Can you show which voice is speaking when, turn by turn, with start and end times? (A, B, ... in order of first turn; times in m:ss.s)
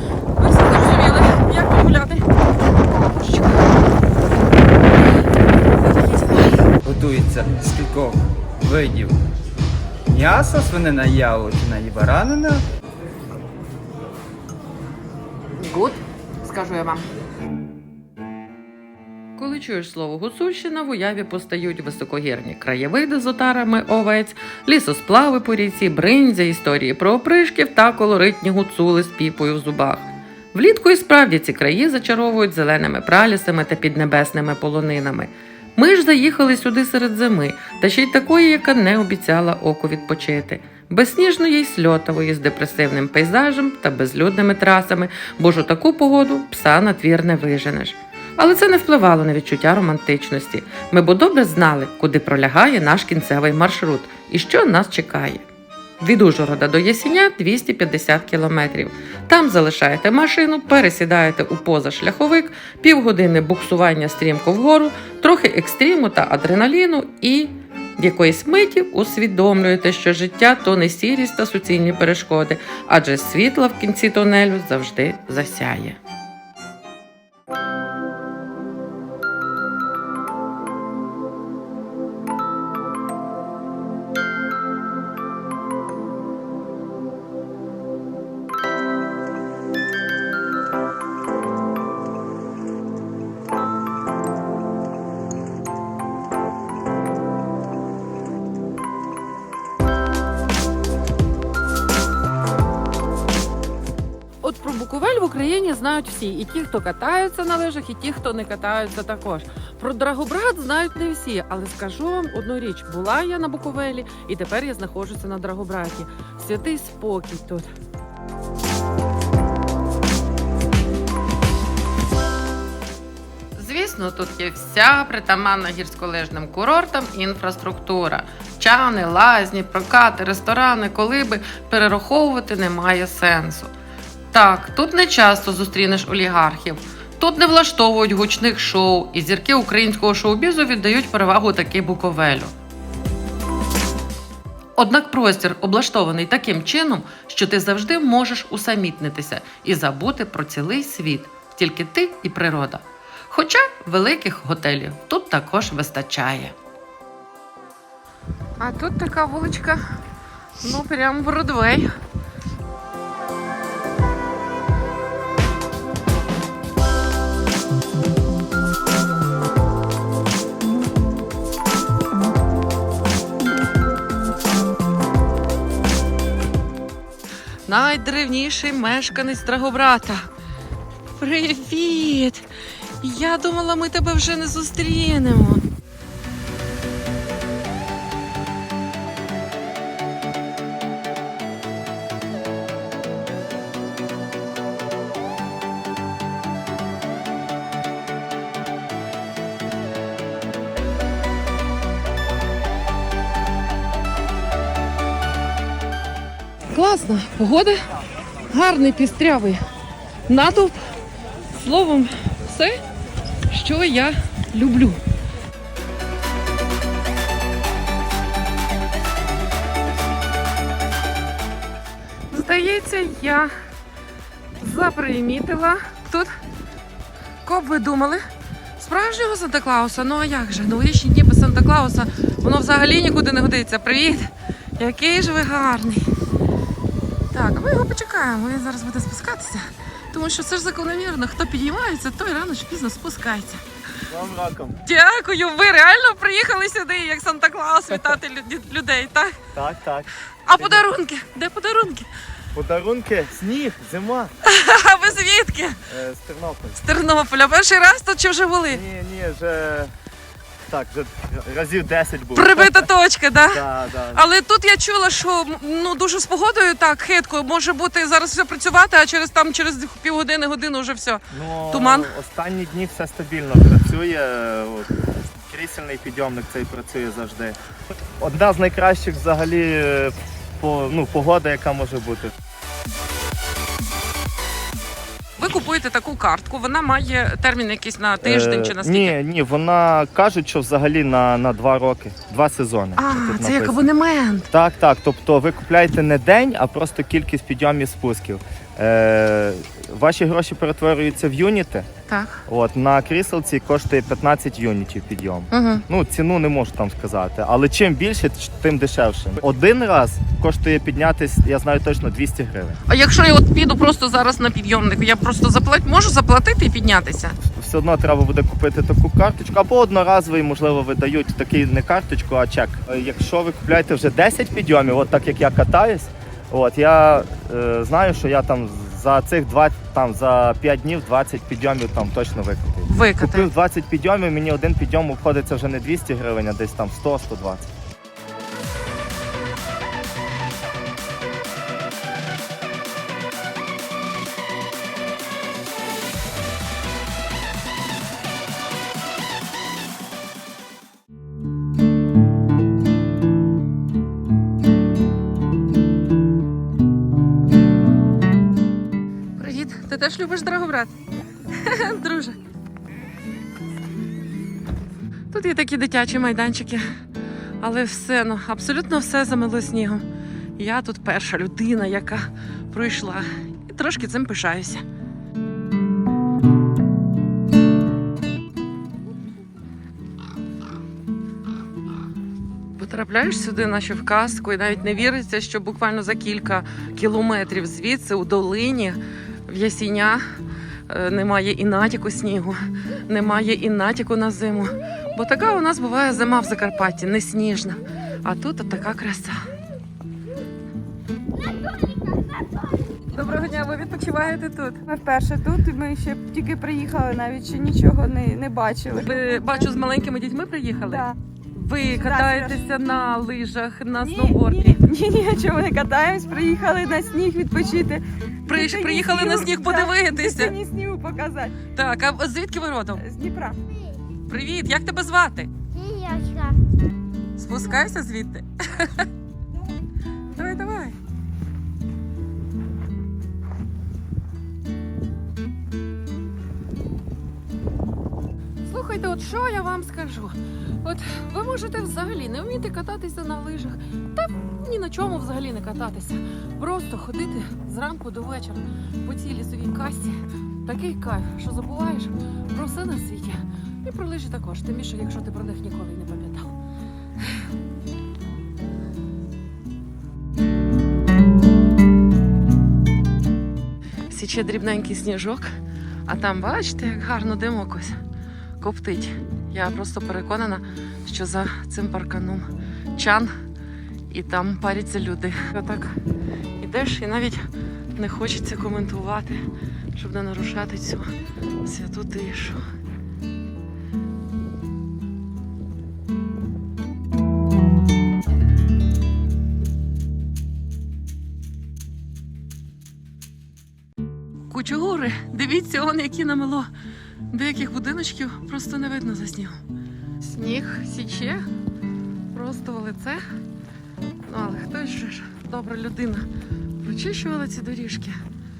0:00.4-0:02.2 A
0:02.8-0:03.7 A
0:05.7-0:06.6 A
0:06.8-0:09.2 B
0:10.1-0:12.6 B
0:15.6-0:17.0 A
0:19.4-0:55.5 A
0:56.0-1:16.0 A
1:44.4-1:57.7 A
2:03.6-2:13.7 A
2:14.3-2:22.5 A
2:24.8-2:36.5 A
2:38.6-2:39.8 A
2:40.6-2:41.9 A
2:57.6-3:00.3 A
3:01.1-3:02.4 A
3:03.0-3:05.6 A
3:26.7-3:27.8 A
3:28.5-3:29.6 A
3:30.3-3:30.8 A
3:31.5-3:32.8 A
3:33.5-3:35.0 A
3:42.3-3:43.5 A
3:44.6-3:46.4 A
3:47.4-3:48.2 A
3:48.8-3:56.0 A
3:57.3-4:03.6 A
4:04.1-4:04.8 C
4:04.8-4:09.4 A
4:09.5-4:10.8 C
4:10.4-4:12.1 A
4:12.5-4:14.3 C
4:14.4-4:15.8 A
4:15.9-4:16.8 C
4:16.7-4:18.8 A
4:18.7-4:19.9 C
4:20.7-4:22.9 C
4:22.3-4:32.1 A
4:23.4-4:24.2 C
4:31.3-4:37.6 C
4:38.2-4:42.3 C
4:45.4-4:49.1 A
4:48.2-4:53.9 C
4:53.0-4:54.5 A
4:54.5-5:01.9 C
5:02.1-5:02.4 A
5:02.5-5:12.8 C
5:05.5-5:05.8 A
5:12.9-5:17.4 A
5:17.5-5:37.7 C
5:32.9-5:33.5 A
5:59.4-6:00.9 A
6:01.5-6:02.4 A
6:05.3-6:06.9 A
6:07.6-6:10.0 A
6:10.6-6:14.8 A
6:22.7-6:30.2 A
6:30.9-6:39.4 A
6:43.1-6:44.8 A
6:44.9-6:49.7 D
6:48.9-6:54.8 A
6:51.9-6:52.6 D
6:54.0-7:01.6 D
6:58.5-7:00.5 A
7:01.7-7:03.0 A
7:03.0-7:03.6 D
7:04.3-7:05.5 A
7:05.8-7:06.2 D
7:07.4-7:09.1 A
7:10.3-7:11.0 A
7:18.6-7:36.5 A
7:44.1-7:48.0 A
7:48.6-7:53.3 A
7:54.1-7:56.0 A
7:56.6-7:59.4 A
7:59.9-8:01.1 A
8:01.6-8:02.6 A
8:14.5-8:16.7 A
8:17.3-8:19.6 A
8:20.2-8:21.4 A
8:22.3-8:23.2 A
8:24.2-8:26.3 A
8:26.8-8:28.2 A